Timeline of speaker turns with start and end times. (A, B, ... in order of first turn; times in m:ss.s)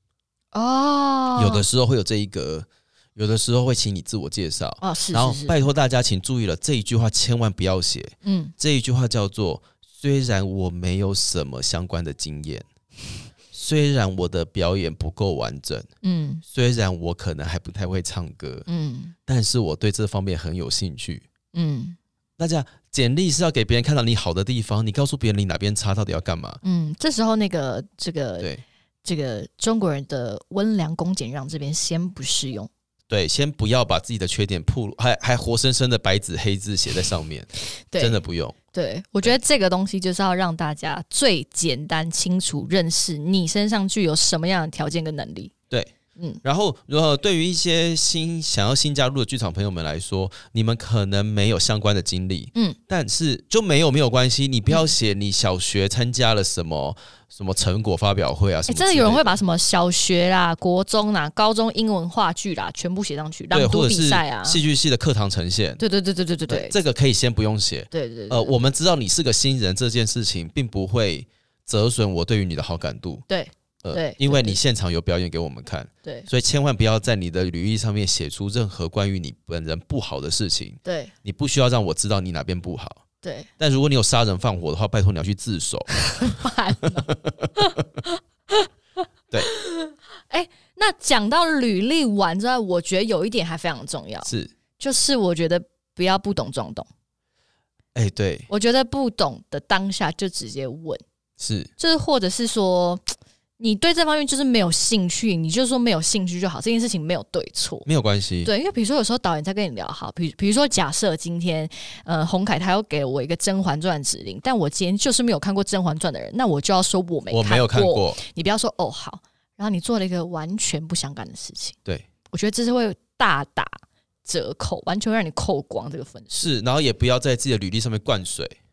0:00.5-0:01.6 A
0:01.4-0:12.7 B
0:04.8-0:05.6 A
0:08.2-0:08.5 A
0:13.5-0:15.9 B
0:16.0-0:16.4 A
0:16.5-0:18.7 B
0:18.7-0:19.2 A
0:19.3-0:21.3 B
0:21.5-0:22.0 A
0:22.4-0:26.6 B
0:26.6-0:28.5 A
0:29.0-0:32.7 A
0:33.1-0:38.6 B
0:37.9-0:38.2 A
0:38.7-0:45.5 A
0:46.4-0:59.4 B
0:58.7-1:04.6 A
1:03.5-1:05.8 B
1:05.8-1:06.8 A
1:06.5-1:13.2 B
1:07.9-1:08.5 A
1:13.3-1:14.6 A
1:13.8-1:23.0 B
1:20.8-1:21.1 A
1:23.2-1:23.5 A
1:23.6-1:25.9 B
1:26.0-1:28.7 A
1:27.1-1:27.5 B
1:29.4-1:36.9 A
1:34.2-1:34.5 B
1:38.0-1:38.5 B
1:38.5-1:41.0 A
1:41.4-1:41.7 B
1:41.8-1:43.0 A
1:43.6-1:47.9 A
1:47.9-1:48.5 B
1:48.4-2:01.8 A
1:57.3-1:58.2 B
2:02.3-2:06.5 A
2:06.4-2:08.6 B